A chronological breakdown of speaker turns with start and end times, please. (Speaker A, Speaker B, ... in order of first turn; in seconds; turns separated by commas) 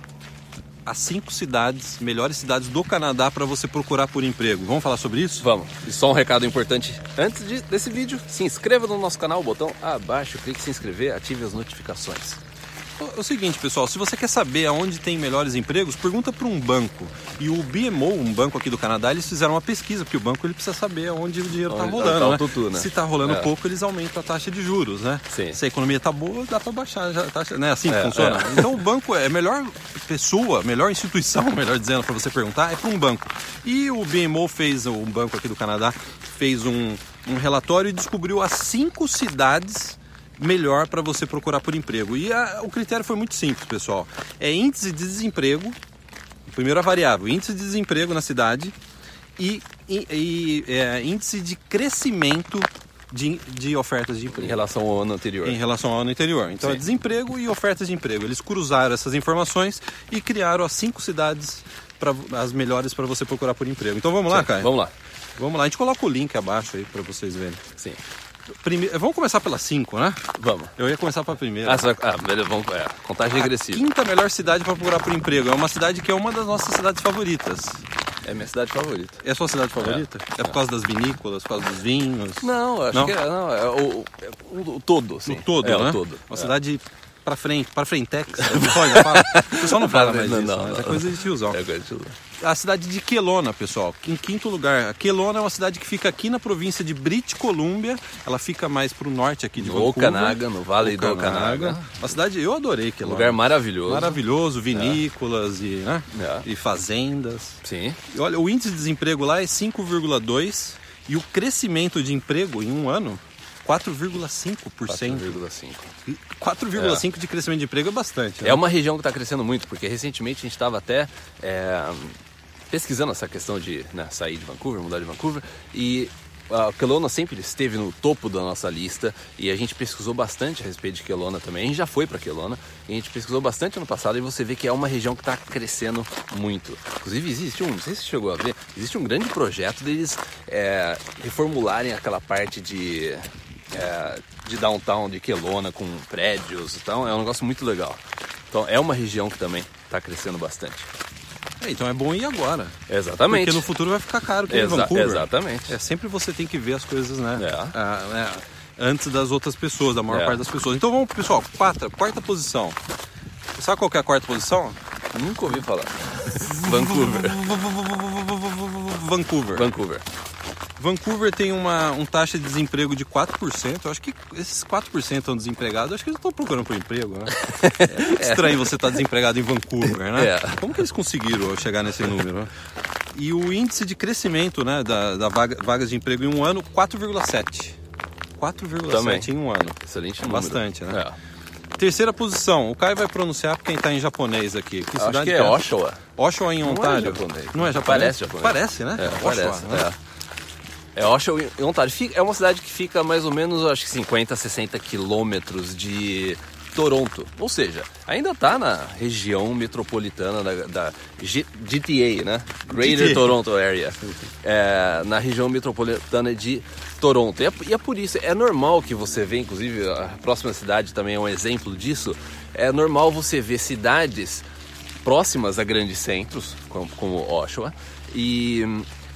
Speaker A: 0.8-5.5, Speaker B: 5.4-12.4, Speaker A: 13.0-45.8, Speaker B: 21.7-23.5, Speaker B: 25.3-25.6, Speaker B: 27.9-28.8, Speaker A: 46.5-48.8, Speaker A: 49.4-54.6, Speaker B: 54.3-55.6, Speaker A: 55.4-64.7, Speaker B: 64.3-64.9, Speaker A: 65.4-67.6, Speaker A: 68.6-70.2, Speaker B: 70.4-70.7, Speaker A: 70.8-71.9, Speaker B: 71.6-73.8, Speaker A: 73.3-77.8, Speaker B: 78.2-79.2, Speaker A: 79.2-83.2, Speaker B: 79.8-80.6, Speaker B: 82.4-86.5, Speaker A: 85.2-91.6, Speaker B: 88.4-92.2, Speaker A: 92.4-115.4, Speaker B: 99.6-102.0, Speaker B: 103.0-104.2, Speaker B: 104.7-105.0, Speaker B: 106.1-106.5, Speaker B: 107.6-108.0, Speaker B: 114.9-115.9, Speaker A: 116.0-118.6, Speaker B: 116.8-117.0, Speaker B: 118.4-122.2, Speaker B: 122.7-150.9, Speaker A: 151.6-152.7, Speaker B: 152.9-153.7, Speaker A: 153.3-162.8, Speaker B: 154.5-155.8, Speaker B: 157.4-157.7, Speaker B: 160.1-160.4, Speaker A: 163.6-164.8, Speaker B: 165.1-167.4, Speaker A: 166.4-169.7, Speaker B: 169.5-170.0, Speaker A: 170.8-182.5, Speaker B: 177.4-179.0, Speaker B: 180.0-180.8, Speaker A: 183.1-187.8, Speaker A: 188.4-191.0, Speaker B: 188.9-191.2, Speaker A: 191.8-199.9, Speaker B: 194.9-196.0, Speaker B: 196.6-200.0, Speaker B: 200.9-224.4, Speaker A: 212.7-213.3, Speaker B: 225.0-228.9